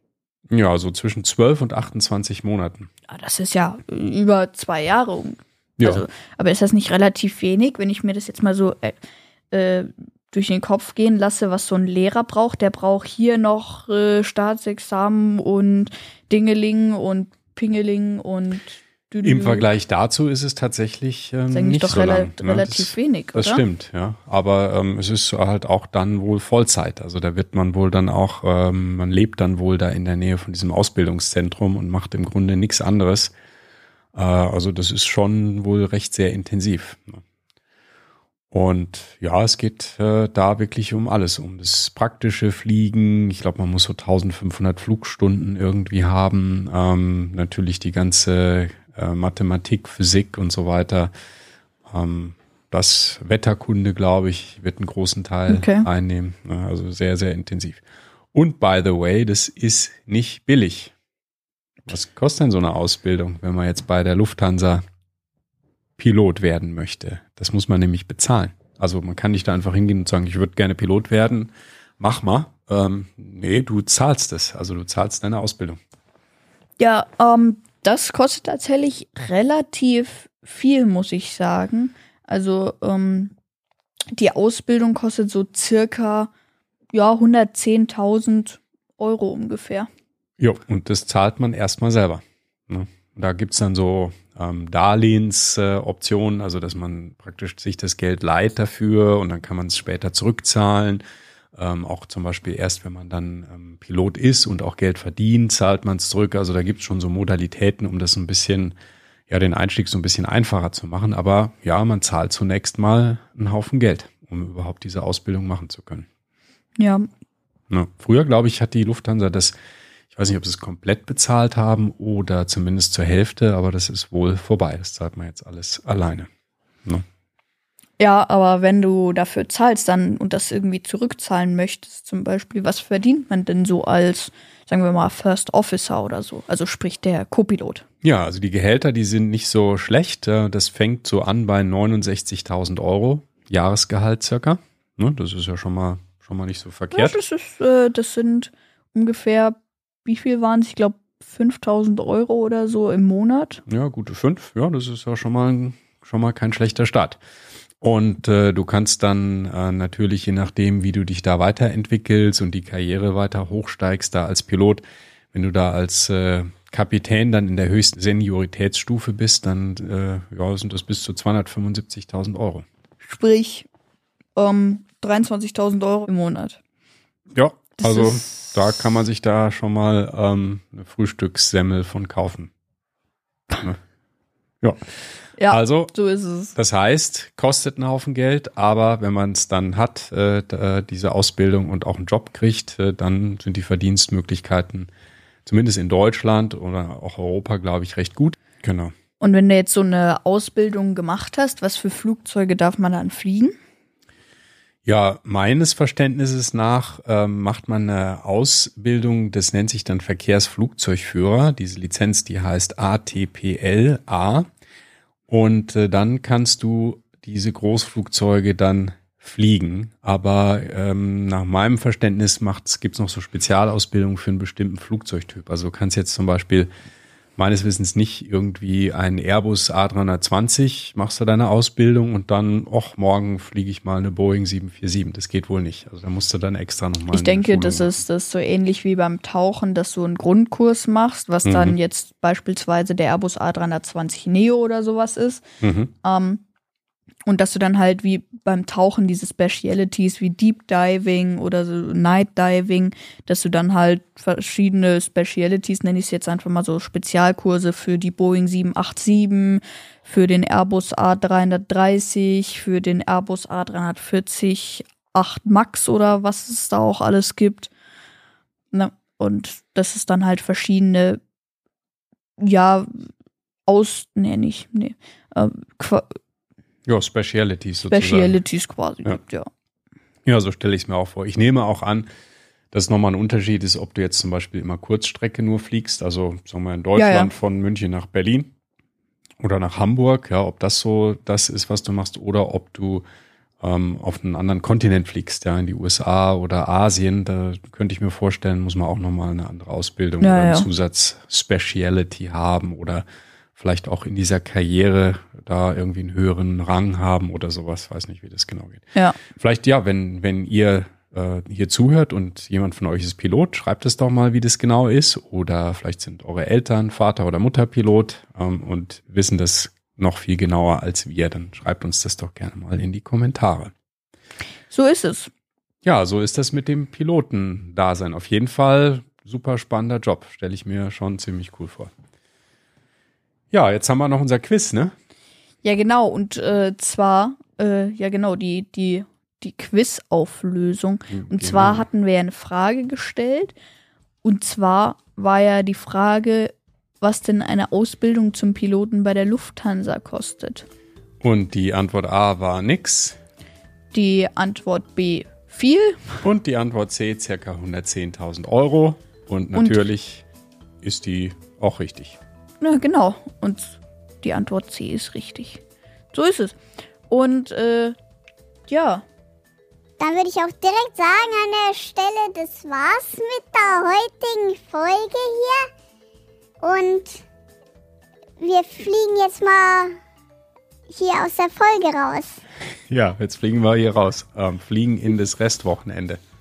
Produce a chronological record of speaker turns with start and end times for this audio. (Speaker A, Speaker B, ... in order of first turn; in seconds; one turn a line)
Speaker A: 0.5-2.9
Speaker B: 3.1-9.0
Speaker A: 5.8-6.0
Speaker B: 9.5-19.7
Speaker A: 19.2-33.3
Speaker B: 21.5-23.6
Speaker A: 34.1-37.2
Speaker A: 38.5-51.1
Speaker A: 51.9-57.8
Speaker B: 55.5-55.9
Speaker A: 58.3-60.9
Speaker A: 61.9-64.8
Speaker A: 66.0-75.8
Speaker B: 76.8-83.3
Speaker B: 84.1-86.3
Speaker B: 86.9-89.9
Speaker A: 90.4-101.0
Speaker A: 101.5-108.7
Speaker A: 109.3-116.1
Speaker B: 116.8-117.1
Speaker A: 117.7-119.5
Speaker A: 120.1-126.3
Speaker B: 128.0-137.8
Speaker A: 138.0-147.2
Speaker B: 146.9-153.6
Speaker A: 153.7-157.2
Speaker A: 157.8-172.6
Speaker B: 173.0-173.7
Speaker B: 174.3-176.6
Speaker A: 177.3-182.5
Speaker B: 177.8-178.5
Speaker B: 185.4-186.5
Speaker A: 185.5-185.9
Speaker A: 186.5-194.9
Speaker A: 195.4-198.9
Speaker B: 199.2-203.6
Speaker A: 204.8-214.5
Speaker A: 215.3-226.7
Speaker A: 227.4-237.9
Speaker B: 237.1-245.4
Speaker A: 241.4-241.7
Speaker A: 245.6-245.9
Speaker B: 246.0-246.4
Speaker B: 247.2-267.7
Speaker B: 268.7-271.2
Speaker B: 272.4-273.1
Speaker B: 273.7-276.2
Speaker A: 276.9-278.4
Speaker B: 277.9-279.5
Speaker A: 280.2-282.1
Speaker A: 282.7-288.5
Speaker B: 286.9-287.3
Speaker A: 289.4-293.0
Speaker A: 293.6-303.0
Speaker B: 300.2-300.7
Speaker A: 303.6-323.7
Speaker B: 324.7-325.3
Speaker A: 325.8-331.9
Speaker A: 333.5-334.9
Speaker B: 335.6-343.5
Speaker A: 341.1-341.8
Speaker B: 344.2-350.6
Speaker A: 351.2-353.2
Speaker B: 353.9-356.2
Speaker A: 356.2-360.2
Speaker B: 359.5-359.8
Speaker A: 360.8-362.2
Speaker B: 362.6-365.6
Speaker B: 366.1-367.9
Speaker B: 368.7-369.0
Speaker C: 370.0-375.7
Speaker C: 376.6-377.2
Speaker C: 378.4-380.0
Speaker C: 380.9-382.4
Speaker A: 382.9-386.2